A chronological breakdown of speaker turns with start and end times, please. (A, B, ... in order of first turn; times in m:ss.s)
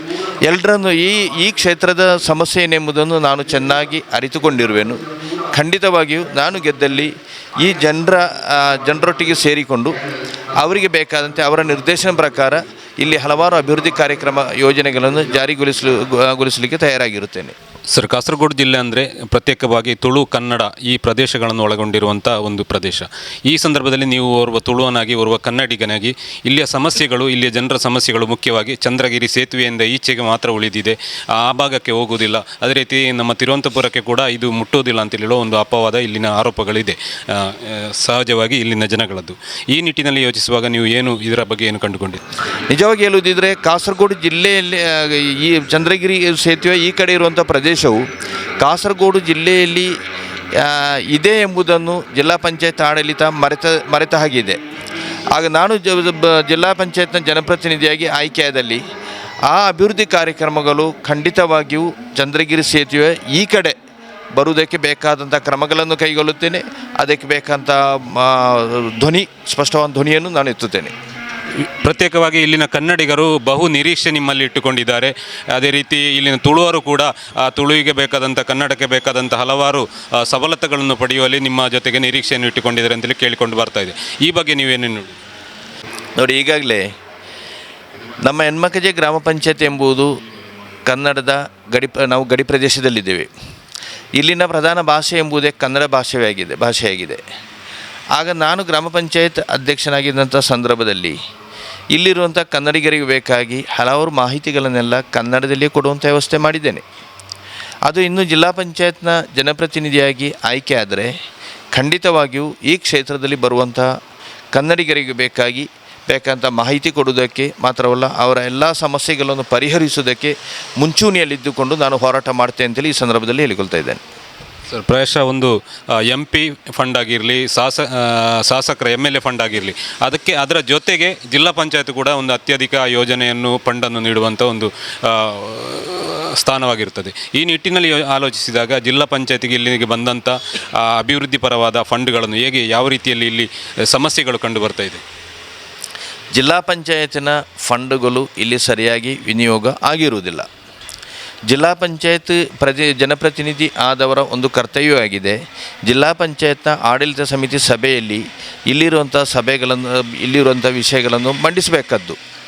0:00.4-0:10.0 A
0:10.6-0:17.5 A
0:17.9-0:42.2 B
0:42.7-0:48.0 A
0:48.6-0:49.9 A
0:50.6-0:54.6 A
0:55.3-0:58.8 A
0:59.5-1:03.8 A
1:04.3-1:10.9 A
1:11.6-1:25.2 B
1:26.2-1:26.9 A
1:28.2-1:30.1 A
1:30.9-1:33.3 A
1:34.2-1:37.2 A
1:38.1-1:41.2 A
1:41.9-1:46.8 A
1:47.9-1:51.1 A
1:51.7-1:53.9 A
1:54.5-2:04.0 A
2:04.7-2:25.0 B
2:26.4-2:30.5 A
2:31.5-2:42.2 A